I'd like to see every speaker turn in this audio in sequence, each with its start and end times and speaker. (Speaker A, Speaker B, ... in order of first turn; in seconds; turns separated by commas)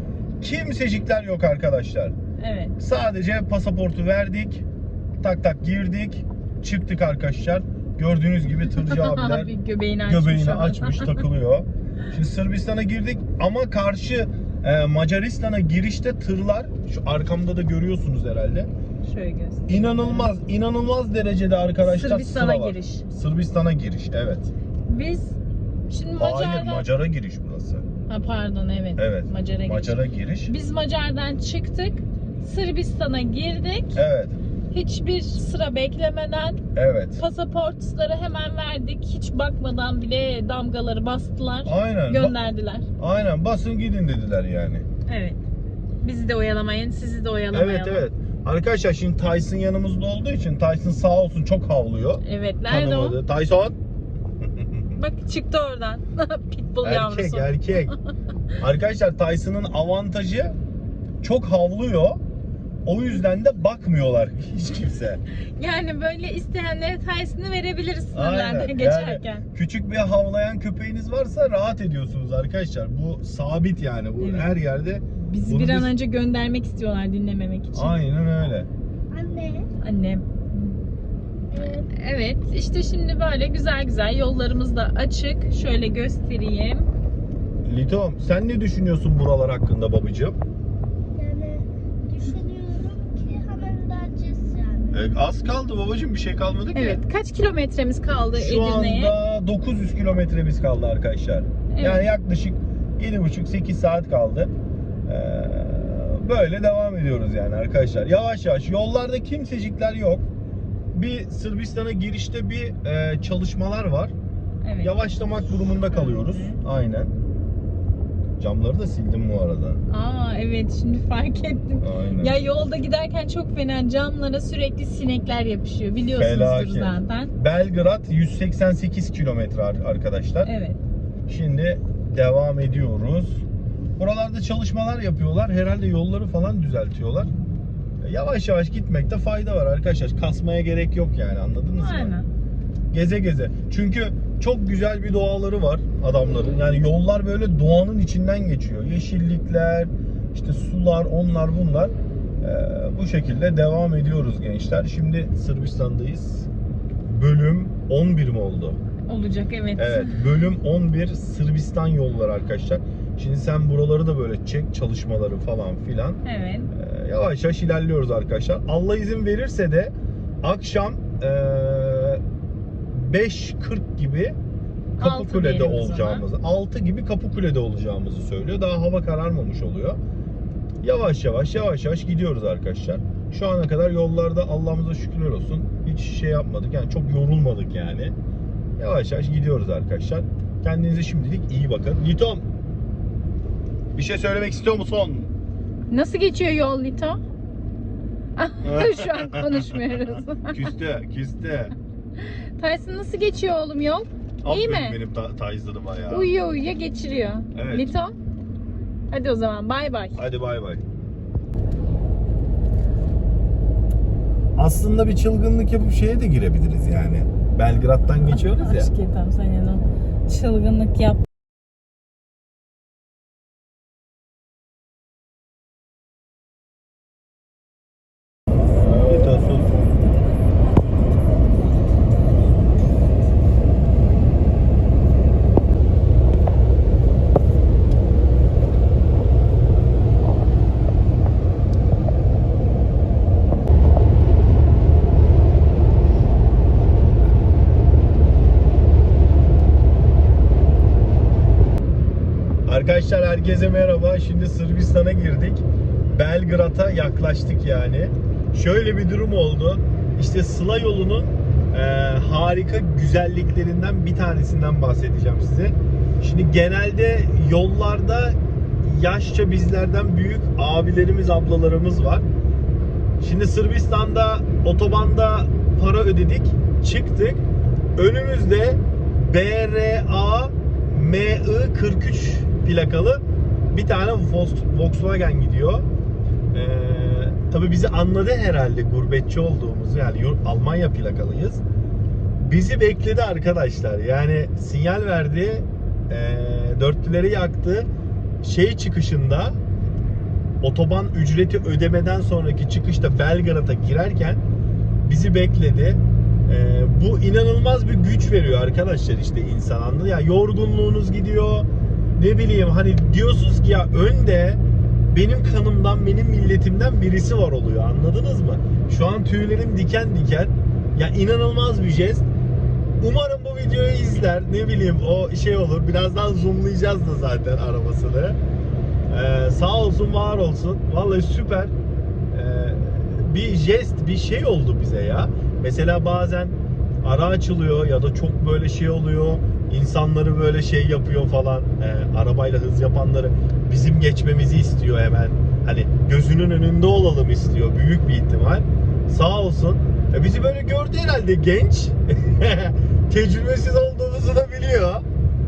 Speaker A: 0.4-2.1, Speaker B: 2.4-2.8, Speaker A: 2.8-4.6, Speaker A: 5.2-9.5, Speaker B: 8.7-11.2, Speaker A: 10.1-18.7, Speaker B: 19.0-20.3, Speaker A: 19.7-24.5, Speaker B: 21.8-23.1, Speaker B: 24.9-25.4, Speaker B: 25.9-26.9, Speaker A: 26.2-27.9, Speaker B: 28.1-34.0, Speaker A: 29.0-30.5, Speaker A: 34.0-34.4, Speaker B: 34.7-36.6, Speaker A: 36.7-37.2, Speaker B: 37.2-42.9, Speaker A: 41.6-42.4, Speaker A: 43.0-44.9, Speaker B: 45.1-45.4, Speaker B: 46.0-48.1, Speaker A: 47.5-53.8, Speaker B: 52.2-53.2, Speaker A: 54.4-55.0, Speaker B: 55.0-57.9, Speaker A: 56.8-57.9, Speaker A: 58.6-60.5, Speaker A: 61.2-62.2, Speaker A: 62.9-65.2, Speaker B: 65.6-69.5, Speaker A: 68.1-75.9, Speaker B: 74.2-74.5, Speaker B: 75.2-78.0, Speaker A: 77.8-78.7, Speaker C: 79.1-79.7, Speaker B: 79.8-80.8, Speaker C: 81.5-81.9, Speaker B: 81.6-86.9, Speaker A: 87.7-90.4, Speaker C: 91.2-95.1, Speaker A: 94.9-97.0, Speaker B: 96.7-99.2, Speaker A: 98.3-104.5, Speaker B: 101.7-102.1, Speaker A: 105.1-110.3, Speaker A: 110.9-114.1, Speaker B: 114.6-114.9, Speaker A: 114.8-117.1, Speaker B: 115.9-116.6, Speaker A: 118.4-119.8, Speaker B: 119.9-127.3, Speaker A: 121.8-122.4, Speaker A: 126.1-130.5, Speaker B: 130.4-130.8, Speaker A: 131.3-133.4, Speaker A: 134.0-137.3, Speaker A: 138.0-142.2, Speaker B: 141.8-142.3, Speaker A: 142.9-156.5, Speaker A: 157.0-158.8, Speaker B: 159.1-160.2, Speaker A: 159.8-172.2, Speaker B: 166.2-166.7, Speaker A: 172.9-174.4, Speaker B: 175.0-176.2, Speaker A: 175.0-180.0, Speaker A: 180.8-188.1, Speaker A: 188.8-192.4, Speaker A: 193.9-195.3, Speaker B: 195.9-197.2, Speaker B: 198.4-200.7, Speaker A: 198.6-199.8, Speaker A: 200.4-201.7, Speaker B: 202.2-205.0, Speaker A: 204.4-206.3, Speaker B: 206.1-208.2, Speaker A: 207.5-207.9, Speaker B: 209.1-210.2, Speaker A: 210.2-210.8, Speaker A: 214.6-218.9, Speaker B: 218.3-221.2, Speaker A: 228.8-229.9, Speaker A: 252.7-272.3, Speaker A: 273.2-277.4, Speaker A: 278.0-285.9, Speaker A: 286.5-291.6, Speaker A: 292.4-297.9, Speaker A: 298.4-299.6, Speaker A: 300.6-304.4, Speaker A: 305.1-322.3, Speaker A: 323.0-328.4, Speaker A: 329.1-331.7, Speaker A: 332.3-355.1